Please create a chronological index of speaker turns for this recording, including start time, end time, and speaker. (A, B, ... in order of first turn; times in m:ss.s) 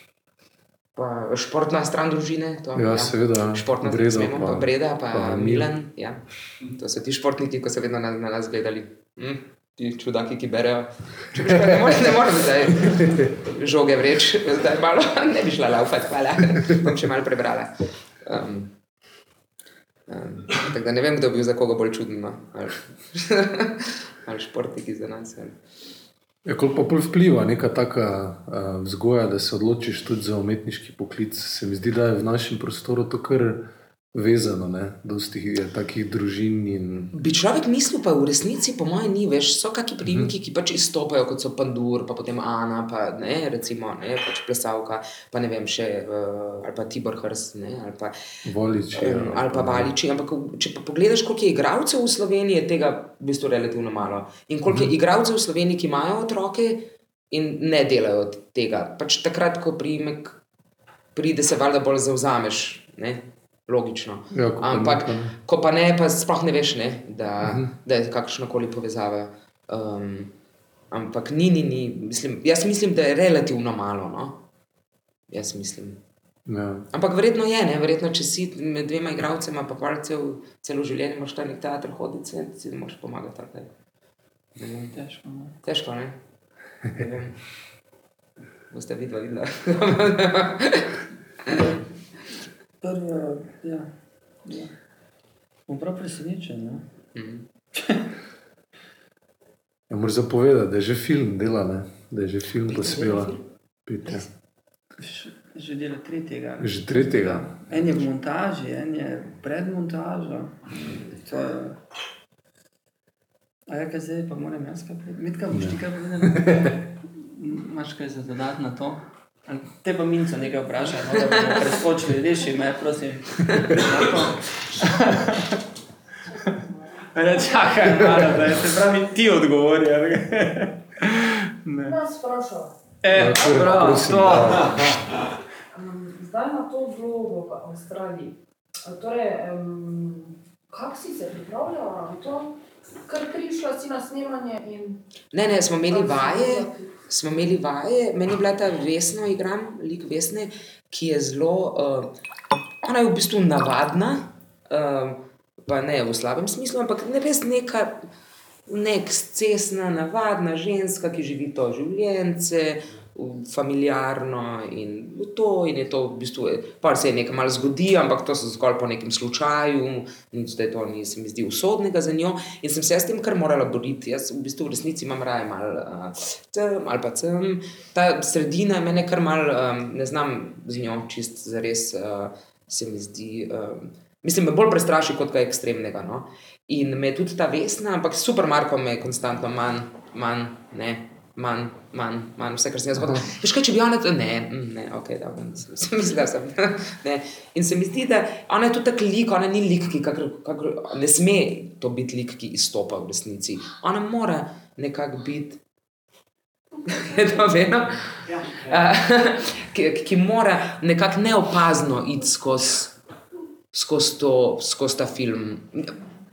0:00.9-0:06.2 A
0:02.7-0:05.7 B
0:06.7-0:17.7 A
0:18.2-0:18.7 A
0:20.1-0:25.5 A
0:26.4-0:33.6 B
0:34.1-0:37.1 B
0:37.1-0:48.1 A
0:40.0-0:40.3 B
0:48.4-0:49.9 B
0:48.9-1:00.4 A
1:01.1-1:10.3 A
1:04.3-1:05.3 B
1:07.4-1:07.7 B
1:10.9-1:14.4 A
1:15.3-1:16.0 A
1:16.4-1:16.9 B
1:16.9-1:23.7 A
1:24.6-1:24.9 A
1:24.9-1:25.6 C
1:25.6-1:26.2 A
1:26.8-1:27.4 A
1:28.7-1:30.9 A
1:31.5-1:31.8 C
1:32.8-1:33.9 C
1:34.4-1:34.7 C
1:35.7-1:36.8 C
1:37.1-1:37.4 A
1:37.7-1:38.1 C
1:39.9-1:43.3 B
1:42.7-1:43.4 A
1:43.8-1:44.2 B
1:45.0-1:51.8 C
1:46.6-1:47.5 B
1:53.7-2:05.6 C
1:55.5-1:56.8 B
2:07.1-2:12.0 C
2:11.8-2:12.7 D
2:13.0-2:14.9 C
2:13.1-2:15.1 B
2:15.7-2:25.0 D
2:25.3-2:32.1 A
2:25.9-2:26.9 D
2:32.8-2:38.1 A
2:38.7-3:25.6 A
3:13.0-3:13.2 B
3:26.8-3:33.0 A
3:33.7-3:36.0 A